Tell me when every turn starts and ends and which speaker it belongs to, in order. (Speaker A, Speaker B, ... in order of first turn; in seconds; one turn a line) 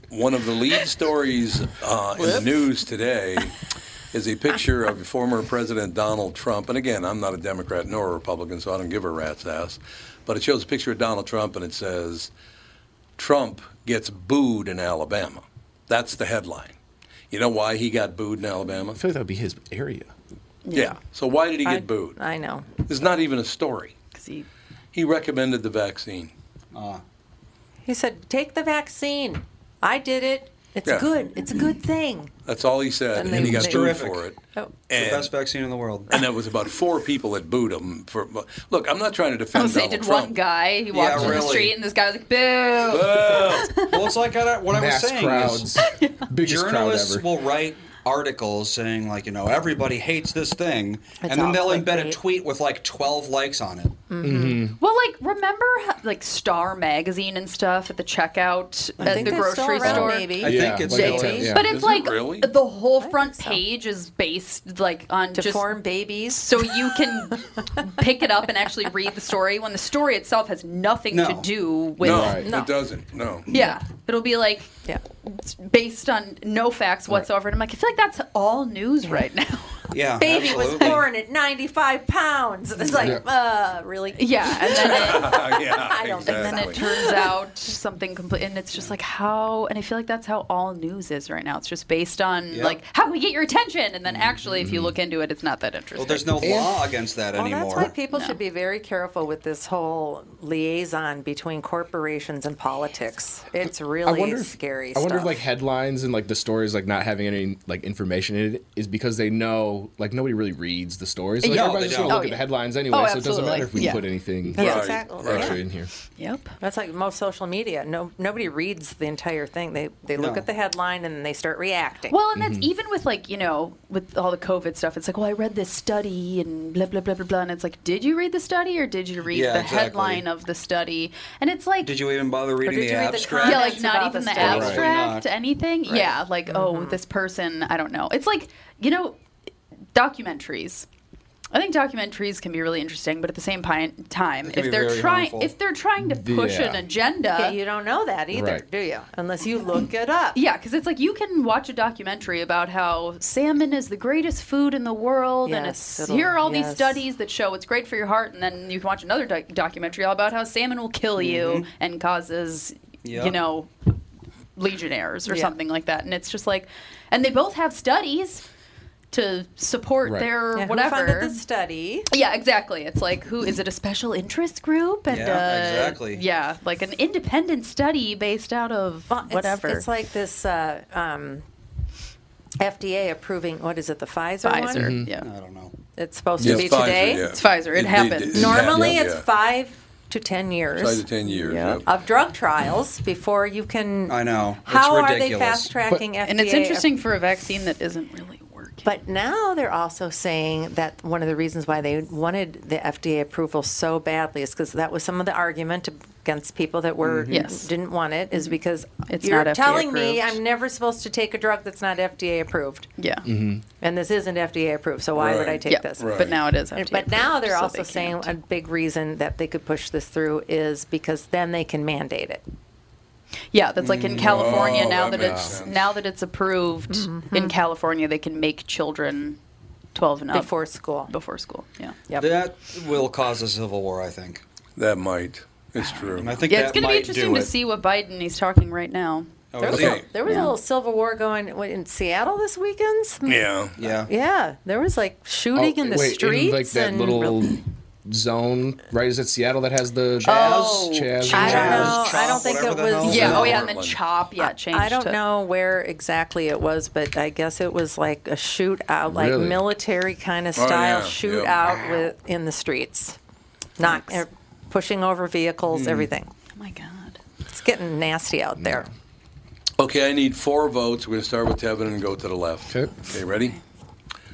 Speaker A: 0.1-3.6
Speaker A: 4.1-12.3
Speaker A: 13.2-16.8
Speaker A: 17.3-19.0
Speaker B: 18.9-20.1
Speaker C: 20.6-20.9
Speaker A: 20.7-22.2
Speaker D: 21.6-22.6
Speaker A: 22.8-23.9
Speaker C: 24.1-24.5
Speaker A: 24.9-26.3
Speaker E: 26.7-27.0
Speaker D: 27.8-32.3
Speaker A: 30.8-31.1
Speaker A: 32.5-35.3
Speaker D: 33.1-34.0
Speaker B: 33.3-33.7
Speaker E: 33.6-34.3
Speaker D: 34.5-34.8
Speaker E: 34.9-36.2
Speaker A: 36.1-40.3
Speaker C: 39.5-44.1
Speaker E: 40.9-41.8
Speaker B: 41.1-41.4
Speaker A: 42.9-43.8
Speaker E: 43.9-45.8
Speaker B: 44.7-47.2
Speaker C: 45.8-46.2
Speaker E: 46.4-54.0
Speaker D: 51.2-52.2
Speaker D: 54.1-54.6
Speaker B: 54.2-54.8
Speaker C: 54.8-65.8
Speaker D: 59.0-61.6
Speaker E: 59.0-61.6
Speaker B: 59.8-61.7
Speaker A: 61.5-62.5
Speaker D: 63.0-63.6
Speaker D: 65.3-67.4
Speaker C: 66.3-72.4
Speaker E: 71.1-71.5
Speaker A: 72.0-73.5
Speaker B: 72.0-72.5
Speaker D: 72.3-72.7
Speaker C: 73.5-79.9
Speaker E: 79.9-81.1
Speaker D: 80.1-87.3
Speaker C: 80.5-81.0
Speaker C: 84.2-85.4
Speaker A: 84.8-86.8
Speaker C: 86.2-96.5
Speaker E: 92.5-92.8
Speaker E: 94.0-94.7
Speaker B: 94.6-94.9
Speaker E: 96.0-97.9
Speaker B: 96.4-96.7
Speaker D: 97.3-105.4
Speaker C: 98.1-98.4
Speaker B: 104.0-115.9
Speaker C: 111.4-114.1
Speaker E: 111.4-112.2
Speaker D: 114.5-115.6
Speaker A: 114.6-115.6
Speaker C: 116.2-116.5
Speaker D: 116.6-122.2
Speaker E: 120.1-120.4
Speaker C: 122.1-132.0
Speaker B: 122.3-122.7
Speaker E: 129.3-130.2
Speaker E: 131.8-135.3
Speaker D: 132.6-134.9
Speaker C: 133.4-139.2
Speaker B: 134.4-134.8
Speaker D: 135.8-137.0
Speaker C: 139.9-140.8
Speaker C: 141.5-147.6
Speaker E: 144.4-145.5
Speaker B: 146.0-146.8
Speaker D: 147.3-150.4
Speaker B: 148.3-148.6
Speaker C: 150.3-163.7
Speaker D: 155.4-157.0
Speaker E: 161.2-161.7
Speaker E: 163.0-163.4
Speaker C: 164.6-168.4
Speaker D: 165.3-165.5
Speaker C: 169.1-171.4
Speaker B: 170.0-170.3
Speaker D: 170.5-172.1
Speaker C: 172.1-179.9
Speaker E: 175.1-176.2
Speaker D: 179.1-181.4
Speaker D: 182.6-185.0
Speaker C: 184.4-185.3
Speaker B: 184.7-185.1
Speaker E: 185.2-185.7
Speaker D: 185.9-187.3
Speaker A: 186.4-189.2
Speaker C: 186.8-188.6
Speaker D: 188.3-196.9
Speaker B: 188.6-188.9
Speaker A: 190.7-191.9
Speaker C: 191.4-191.8
Speaker E: 194.1-195.7
Speaker C: 196.2-198.9
Speaker D: 198.8-212.9
Speaker E: 207.0-207.4
Speaker C: 207.3-207.7
Speaker C: 208.3-210.4
Speaker C: 213.0-213.3
Speaker B: 213.2-213.6
Speaker D: 213.8-222.4
Speaker A: 215.2-216.4
Speaker C: 215.6-218.3
Speaker C: 223.5-229.4
Speaker E: 223.8-224.8
Speaker A: 224.2-225.9
Speaker B: 225.1-225.6
Speaker D: 226.9-227.6
Speaker C: 229.9-230.5
Speaker D: 230.3-231.1
Speaker C: 231.1-232.0
Speaker D: 232.1-232.4
Speaker E: 232.2-234.4
Speaker A: 234.8-236.4
Speaker C: 235.8-239.4
Speaker E: 236.2-237.5
Speaker E: 239.5-240.2
Speaker D: 239.6-247.6
Speaker A: 239.7-240.1
Speaker C: 240.2-240.6
Speaker A: 243.2-243.8
Speaker E: 243.8-244.1
Speaker B: 245.5-252.0
Speaker E: 250.2-253.6
Speaker C: 250.2-252.1
Speaker D: 250.3-253.6
Speaker C: 253.0-255.2
Speaker A: 253.1-254.0
Speaker D: 254.4-263.2
Speaker B: 259.1-259.7
Speaker A: 260.5-261.6
Speaker D: 263.8-266.3
Speaker E: 265.7-266.1
Speaker C: 266.5-267.2
Speaker D: 267.5-268.9
Speaker B: 268.6-268.9
Speaker A: 269.8-273.6